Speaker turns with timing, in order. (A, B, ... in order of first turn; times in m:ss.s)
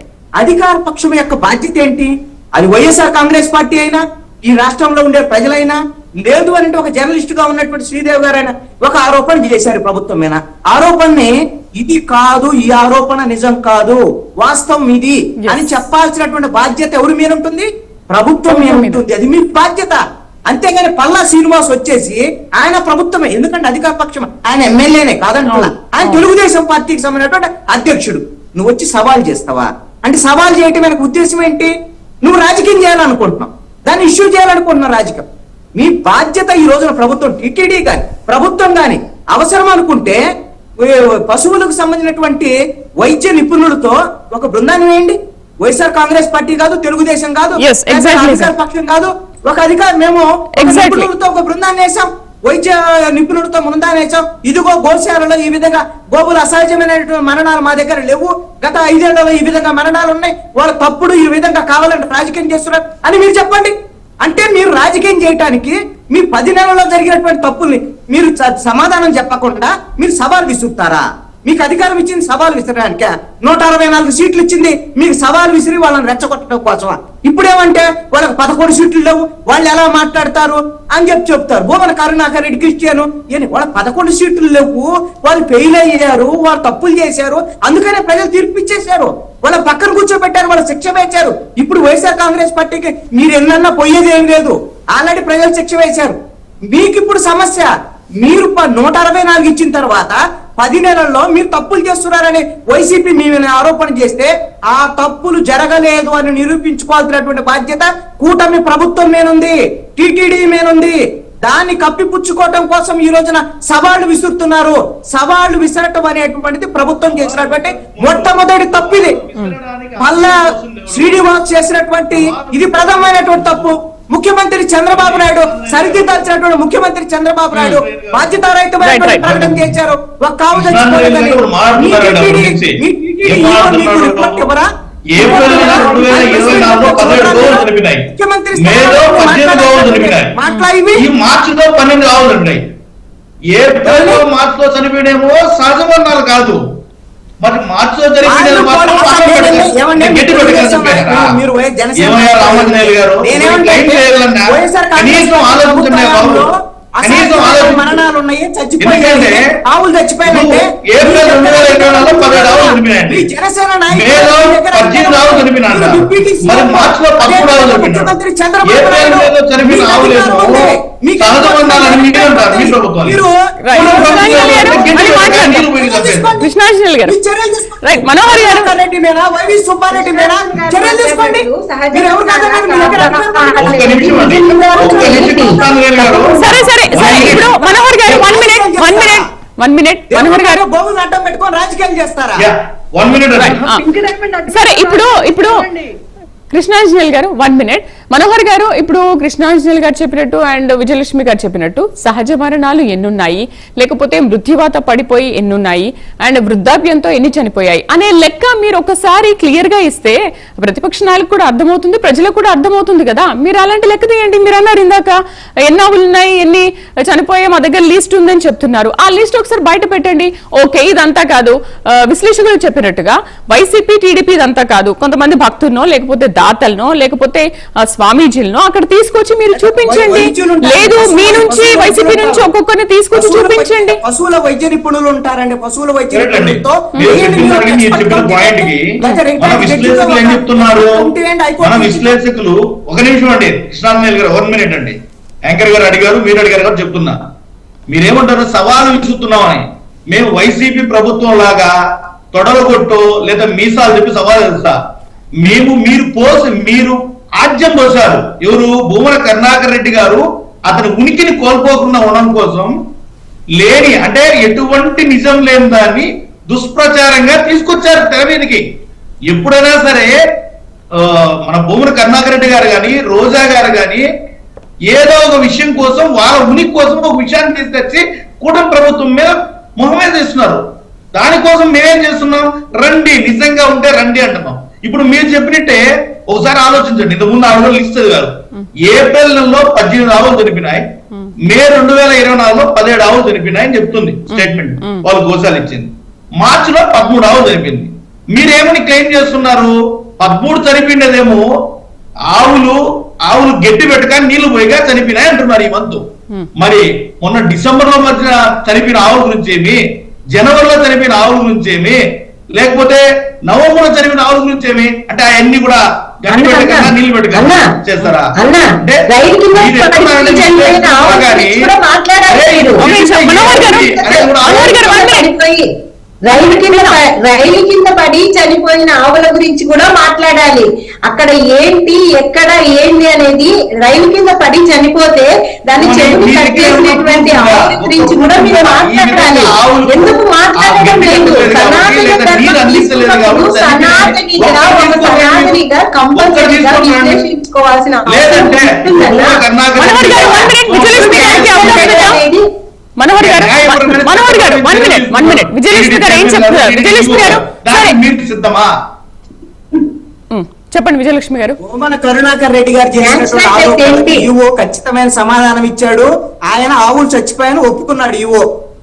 0:00.4-0:40.2 A
0:15.4-0:15.7 B
0:18.5-0:19.0 B
0:25.4-0:26.2 B
0:40.8-1:36.2 A
0:47.6-0:48.5 B
0:50.6-0:51.1 B
1:36.7-1:37.7 A
1:38.2-1:59.2 A
1:57.0-2:01.2 C
2:00.0-2:21.1 A
2:02.1-2:03.7 C
2:04.9-2:06.3 C
2:07.6-2:07.8 B
2:07.7-2:08.3 C
2:08.8-2:09.3 B
2:09.2-2:09.8 C
2:10.5-2:14.5 C
2:15.1-2:20.4 C
2:20.9-2:22.6 C
2:23.5-2:26.6 C
2:23.8-2:24.2 A
2:27.4-2:31.3 C
2:28.2-2:56.5 A
2:32.0-2:36.4 C
2:37.0-2:38.0 C
2:38.8-2:39.4 C
2:40.3-2:43.3 C
2:43.9-2:48.1 C
2:48.6-2:53.2 C
2:53.6-2:55.8 B
2:53.8-2:56.3 C
2:56.4-2:57.2 B
2:57.1-3:04.0 A
2:57.8-2:58.7 B
2:59.9-3:07.4 D
3:03.6-3:07.4 C
3:04.7-3:05.6 A
3:06.3-3:10.6 B
3:07.0-3:09.3 A
3:10.1-3:12.5 A
3:12.4-3:13.8 C
3:13.4-3:13.8 B
3:13.8-3:15.8 D
3:14.5-3:15.6 B
3:16.5-3:54.0 B
3:49.6-3:52.5 A
3:53.1-4:02.2 A
3:56.1-4:01.1 C
4:01.6-4:07.2 C
4:07.9-4:11.7 C
4:12.3-4:14.8 C
4:15.4-4:22.7 C
4:23.6-4:28.6 C
4:29.3-4:30.2 C
4:31.0-4:34.0 C
4:34.9-4:50.9 C
4:51.4-5:01.4 C
4:54.3-4:55.1 B
5:02.3-5:06.0 C
5:06.6-5:12.0 C
5:12.5-5:21.6 C
5:16.3-5:17.7 D
5:18.4-5:25.7 D
5:22.3-5:24.9 C
5:22.8-5:23.9 B
5:24.5-5:25.3 B
5:26.2-5:49.4 D
5:26.3-5:27.0 B
5:35.8-5:45.6 C
5:46.1-5:47.2 C
5:48.1-5:52.2 C
5:49.8-5:52.2 B
5:50.0-5:52.4 D
5:53.0-5:58.0 B
5:53.2-5:58.7 C
6:00.3-6:01.6 B
6:01.6-6:08.4 A
6:03.0-6:04.3 D